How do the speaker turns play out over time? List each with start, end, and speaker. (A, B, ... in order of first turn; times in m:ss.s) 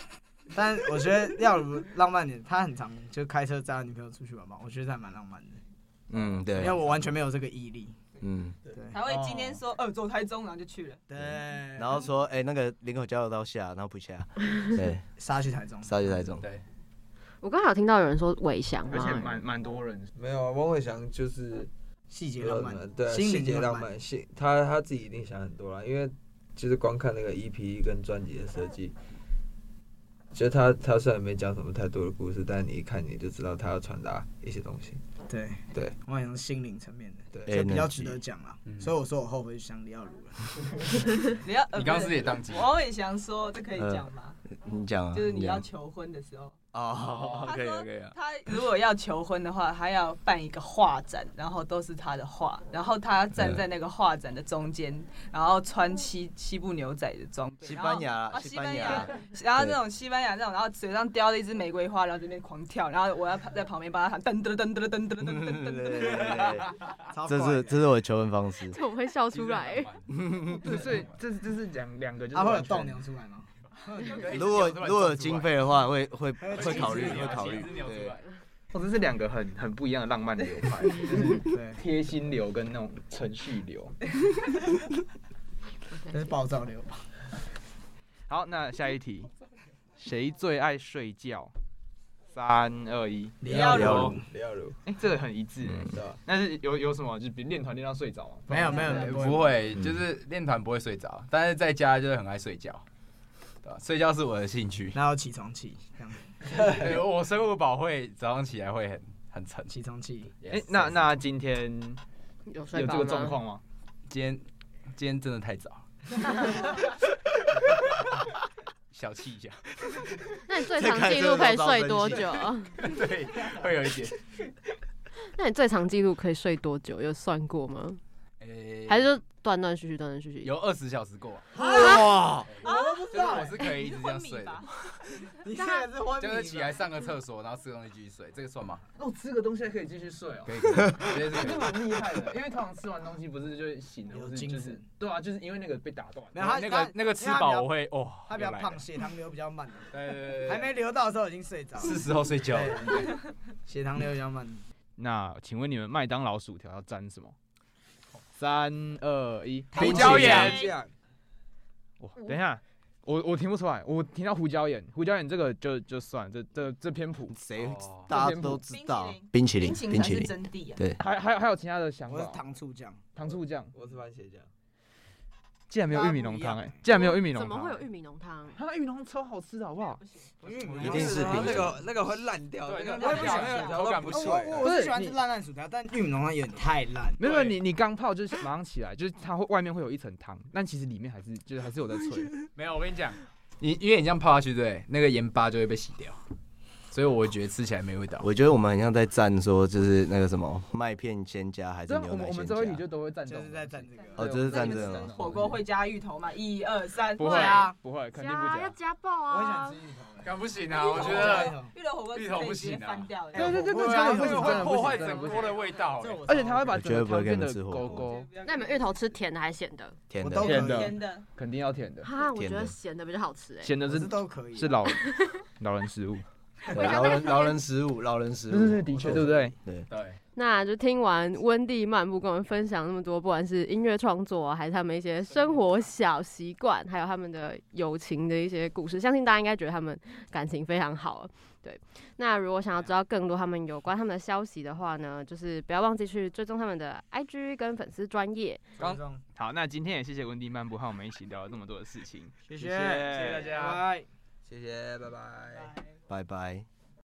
0:00.5-0:05.6 A
0:06.1-0:06.8 B
0:06.5-0:08.0 A
0:08.2-0:08.6 B
0:08.7-0:09.2 C
0:08.8-0:09.6 A
0:08.9-0:11.0 D
0:11.1-0:12.1 A
0:11.2-0:15.1 B
0:15.2-0:16.3 A
0:15.8-0:16.5 B
0:16.4-0:16.6 E
0:17.4-0:19.3 F
0:18.9-0:20.1 G
0:20.1-0:21.7 C
0:22.1-0:23.9 A
0:22.4-0:29.0 C
0:30.3-0:35.0 C
0:35.3-0:41.1 A
0:37.5-0:38.2 B
0:38.7-0:38.9 E
0:41.4-0:44.4 D
0:41.7-0:42.7 E
0:43.8-0:44.1 B
0:44.6-0:45.7 B
0:45.1-0:46.6 D
0:46.7-0:48.1 B
0:47.1-0:48.1 E
0:47.4-1:06.7 D
0:53.4-0:53.6 B
0:57.6-0:59.8 B
1:05.2-1:06.7 B
1:07.1-1:07.9 A
1:07.3-1:08.8 B
1:08.7-1:09.9 F
1:09.3-1:11.2 E
1:10.2-1:10.7 B
1:10.5-1:13.0 G
1:12.3-1:13.5 A
1:13.8-1:15.6 E
1:14.3-1:18.2 B
1:16.4-1:17.7 A
1:16.4-1:18.3 E
1:18.7-1:24.0 G
1:21.3-1:21.8 A
1:26.1-1:27.1 A
1:28.3-1:29.3 G
1:30.0-1:31.5 G
1:32.3-1:33.4 G
1:33.4-1:34.2 A
1:33.4-1:34.8 C
1:33.5-1:34.0 D
1:33.7-1:34.2 B
1:34.8-1:39.1 G
1:35.9-1:36.2 C
1:38.5-1:39.6 A
1:38.9-1:42.8 E
1:43.6-1:45.0 E
1:44.9-1:46.4 A
1:46.6-1:49.8 E
1:49.7-1:50.4 A
1:50.4-1:51.1 E
1:50.5-1:52.0 G
1:52.5-1:53.4 F
1:52.7-1:53.6 G
1:54.1-1:56.6 E
1:58.9-2:00.0 E
2:00.5-2:02.8 F
2:00.7-2:02.5 B
2:02.8-2:04.2 E
2:05.3-2:08.0 F
2:08.4-2:09.1 E
2:08.9-2:10.6 F
2:10.4-2:11.5 E
2:11.6-2:12.5 B
2:11.6-2:13.7 A
2:11.8-2:12.0 F
2:12.5-2:14.6 E
2:12.6-2:15.0 D
2:15.3-2:16.8 A
2:16.2-2:18.9 E
2:19.0-2:26.5 G
2:20.5-2:21.8 E
2:24.1-2:24.9 A
2:26.3-2:34.6 A
2:26.4-2:28.8 E
2:28.0-2:28.3 G
2:29.9-2:30.7 E
2:31.8-2:33.2 E
2:35.0-2:37.4 G
2:38.3-2:40.6 G
2:39.7-2:40.8 D
2:39.8-2:40.9 C
2:39.9-2:40.7 E
2:42.0-2:47.4 G
2:47.3-2:51.0 B
2:47.5-2:48.1 E
2:48.1-2:48.6 G
2:48.7-2:50.8 D
2:51.0-2:52.4 G
2:52.1-2:53.1 A
2:53.2-2:53.7 G
2:53.3-2:54.5 C
2:55.7-2:57.9 G
2:55.9-2:56.8 A
2:56.9-2:58.6 F
2:58.5-3:00.0 G
2:59.8-3:01.0 D
3:00.4-3:01.8 A
3:00.6-3:01.8 E
3:00.7-3:04.7 C
3:00.8-3:01.7 B
3:02.6-3:04.6 E
3:03.0-3:03.8 D
3:03.0-3:07.4 A
3:04.6-3:05.2 G
3:07.2-3:12.4 G
3:07.2-3:07.6 E
3:12.6-3:16.2 E
3:16.9-3:18.3 E
3:18.2-3:22.8 B
3:21.9-3:25.6 G
3:23.2-3:24.4 A
3:24.2-3:25.1 B
3:24.4-3:27.6 D
3:27.2-3:28.8 G
3:27.2-3:29.8 F
3:27.4-3:27.8 A
3:29.3-3:31.7 A
3:30.2-3:31.6 E
3:30.7-3:33.6 D
3:32.1-3:33.1 E
3:33.3-3:35.5 G
3:33.3-3:36.9 A
3:33.9-3:36.3 E
3:35.4-3:35.7 D
3:36.2-3:38.3 G
3:36.7-3:38.0 B
3:37.8-3:38.8 D
3:38.4-3:40.0 F
3:40.1-3:40.7 B
3:40.2-3:41.0 A
3:40.4-3:42.1 G
3:40.5-3:41.3 D
3:42.0-3:43.7 F
3:42.2-3:42.7 B
3:43.6-3:46.2 G
3:43.8-3:44.8 A
3:44.9-3:45.3 F
3:46.7-3:47.5 D
3:46.7-3:49.9 B
3:48.5-3:49.6 G
3:48.9-3:49.5 A
3:49.9-3:50.2 E
3:50.4-4:08.6 F
4:08.8-4:09.2 A
4:09.4-4:13.8 G
4:12.5-4:14.1 A
4:13.3-4:13.6 E
4:14.5-4:15.6 C
4:16.1-4:16.7 B